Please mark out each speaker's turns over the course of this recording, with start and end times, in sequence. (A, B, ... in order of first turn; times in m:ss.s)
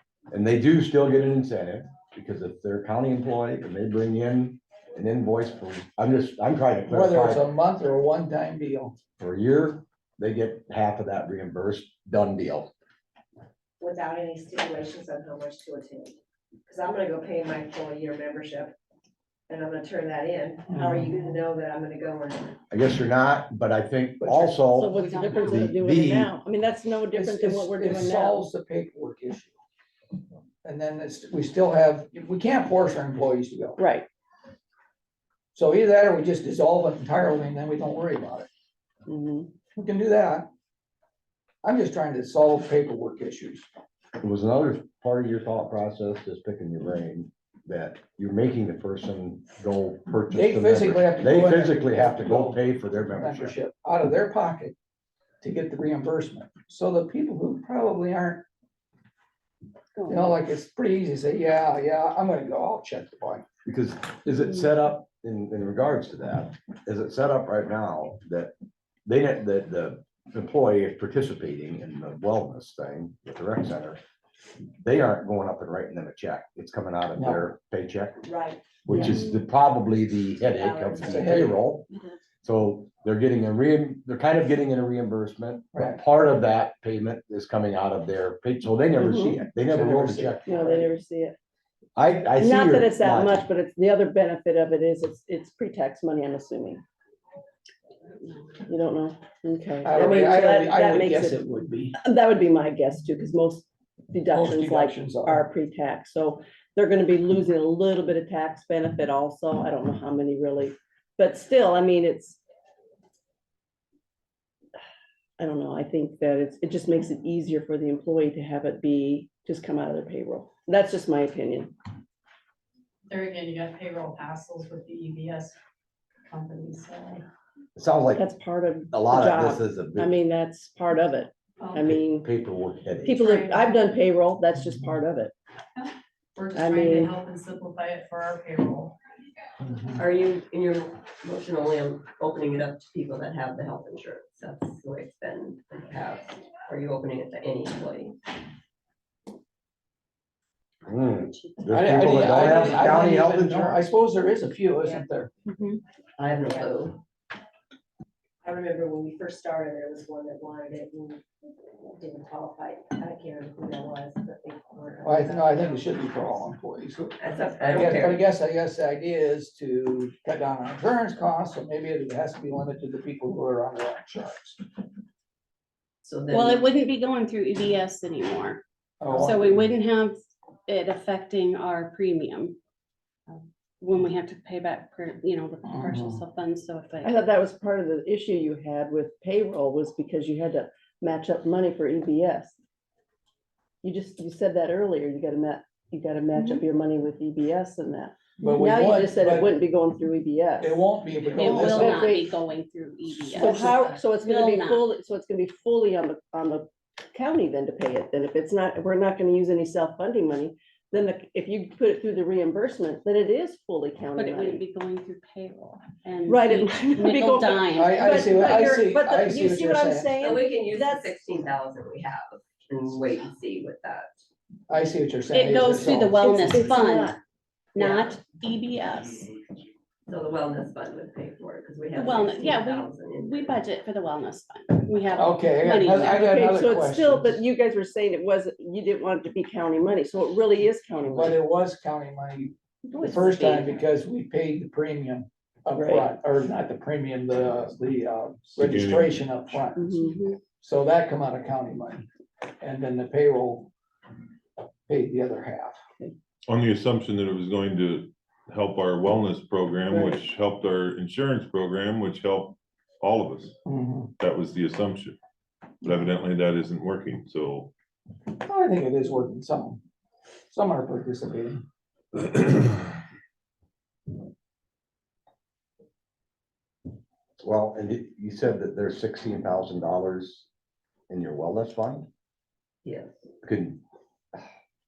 0:00.3-0:07.4 A
0:06.9-0:08.9 B
0:09.2-0:12.7 A
0:13.8-0:16.0 C
0:16.7-0:17.8 C
0:20.4-0:21.5 C
0:20.7-0:21.2 B
0:22.7-0:26.3 A
0:24.2-0:24.5 B
0:24.7-0:28.4 D
0:24.8-0:25.6 E
0:27.1-0:29.6 B
0:30.6-0:33.8 B
0:33.8-0:34.1 D
0:35.5-0:38.5 B
0:39.1-0:39.5 D
0:39.8-0:40.5 B
0:41.6-0:43.7 B
0:44.2-0:53.6 A
0:50.3-0:54.7 B
0:55.4-0:58.4 B
1:00.0-1:00.3 E
1:00.1-1:03.4 B
1:03.6-1:08.5 A
1:09.0-1:14.0 A
1:14.8-1:18.2 A
1:17.2-1:17.4 B
1:18.3-1:18.6 F
1:18.8-1:21.9 A
1:18.9-1:19.2 B
1:20.5-1:20.9 F
1:21.0-1:21.6 B
1:22.4-1:30.6 A
1:25.7-1:26.0 B
1:29.0-1:29.4 D
1:29.7-1:30.8 B
1:30.4-1:31.3 D
1:32.0-1:33.4 A
1:32.4-1:36.8 D
1:38.7-1:41.4 D
1:39.8-1:42.0 B
1:41.9-1:52.4 D
1:44.3-1:45.4 B
1:55.4-2:01.7 D
2:03.1-2:05.6 G
2:06.3-2:07.2 G
2:07.8-2:08.2 A
2:08.1-2:12.3 D
2:08.9-2:10.1 A
2:11.8-2:13.2 A
2:13.0-2:15.3 D
2:13.1-2:13.8 G
2:15.8-2:19.0 G
2:16.5-2:17.2 D
2:20.0-2:28.1 F
2:30.8-2:33.8 A
2:31.7-2:35.3 B
2:35.5-2:35.8 E
2:36.2-2:36.8 C
2:36.2-2:37.0 F
2:38.4-2:41.0 F
2:38.5-2:41.2 C
2:42.0-2:45.7 C
2:42.4-2:43.9 F
2:45.0-2:45.4 F
2:45.0-2:54.6 B
2:47.2-2:48.2 F
2:56.0-2:56.6 F
2:56.3-3:02.6 E
2:59.0-2:59.6 B
3:03.3-3:07.1 E
3:05.7-3:06.2 B
3:07.0-3:12.5 D
3:13.8-3:20.8 D
3:16.3-3:16.6 E
3:18.4-3:19.5 B
3:20.6-3:22.1 B
3:21.3-3:22.3 D
3:21.3-3:24.8 E
3:23.3-3:34.6 D
3:23.4-3:23.9 G
3:34.1-3:38.6 E
3:36.2-3:41.1 D
3:37.7-3:40.1 B
3:40.2-3:44.1 F
3:44.7-3:46.3 B
3:45.3-3:47.2 E
3:46.2-3:47.2 D
3:47.7-3:49.3 E
3:50.1-3:53.5 F
3:51.9-3:56.3 E
3:52.4-3:52.9 C
3:55.1-3:57.4 B
3:56.1-4:01.4 D
4:01.1-4:10.0 B
4:02.9-4:03.8 D
4:05.8-4:06.1 D
4:08.6-4:09.3 H
4:09.8-4:10.4 D
4:10.6-4:12.1 B
4:12.6-4:13.7 B
4:14.9-4:15.8 B
4:16.5-4:23.5 H
4:19.9-4:20.2 D
4:23.6-4:24.1 B
4:24.2-4:25.2 H
4:25.8-4:27.7 H
4:28.4-4:29.8 B
4:30.5-4:31.6 B
4:37.4-4:40.5 A
4:41.1-4:42.1 A
4:42.8-4:43.1 F
4:43.4-4:43.8 A